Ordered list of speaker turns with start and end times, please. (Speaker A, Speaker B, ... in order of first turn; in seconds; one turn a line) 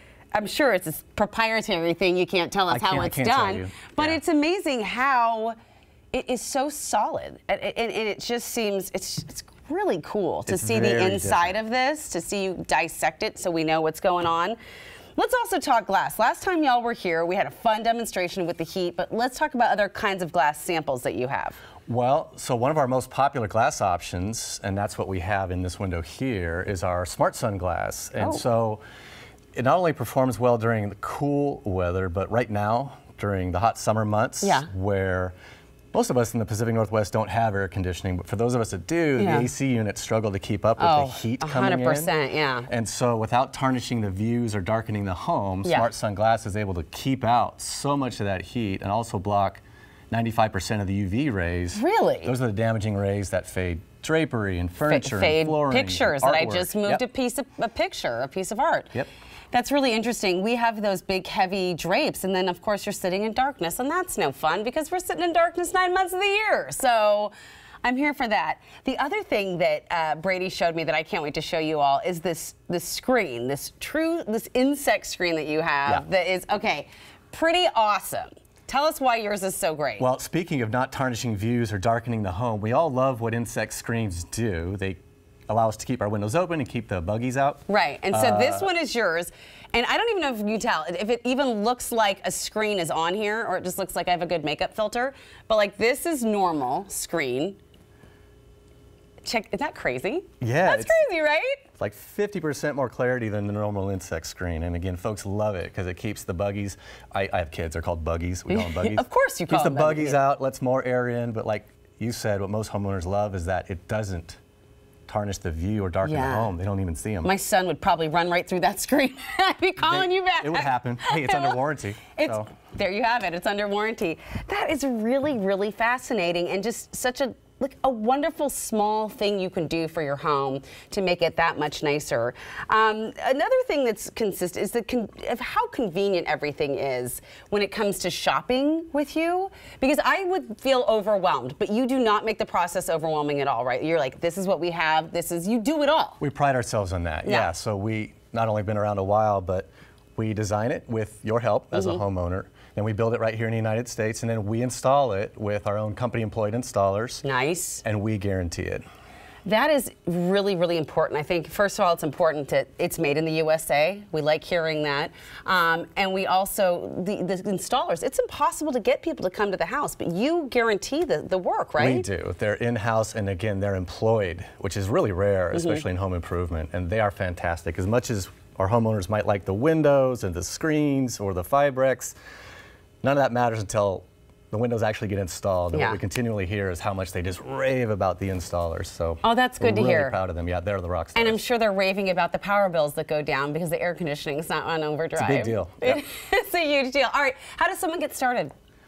Speaker A: 0.3-5.6
Speaker B: 2.7-4.2
Speaker A: 6.1-14.6
Speaker B: 10.5-11.6
Speaker A: 15.2-21.6
Speaker B: 21.9-28.8
Speaker A: 28.2-28.4
Speaker B: 29.6-35.3
Speaker A: 34.4-34.7
Speaker B: 35.9-42.1
Speaker A: 39.2-39.5
Speaker A: 40.8-42.7
Speaker B: 42.7-57.0
Speaker A: 51.8-52.3
Speaker A: 54.8-59.0
Speaker A: 59.5-67.3
Speaker A: 67.8-80.1
Speaker B: 80.0-88.7
Speaker A: 87.7-97.6
Speaker A: 99.2-101.6
Speaker B: 100.4-101.0
Speaker B: 101.8-114.4
Speaker A: 108.5-110.2
Speaker B: 115.1-117.3
Speaker A: 116.0-116.5
Speaker A: 117.2-121.6
Speaker B: 119.8-122.5
Speaker A: 122.1-146.2
Speaker B: 146.2-157.2
Speaker A: 147.2-147.5
Speaker A: 151.7-152.0
Speaker A: 157.2-157.8
Speaker B: 157.8-158.8
Speaker A: 159.4-172.1
Speaker B: 171.8-182.2
Speaker A: 175.5-175.8
Speaker B: 183.0-191.4
Speaker A: 185.7-186.0
Speaker A: 189.2-190.2
Speaker A: 191.2-198.5
Speaker B: 195.2-196.0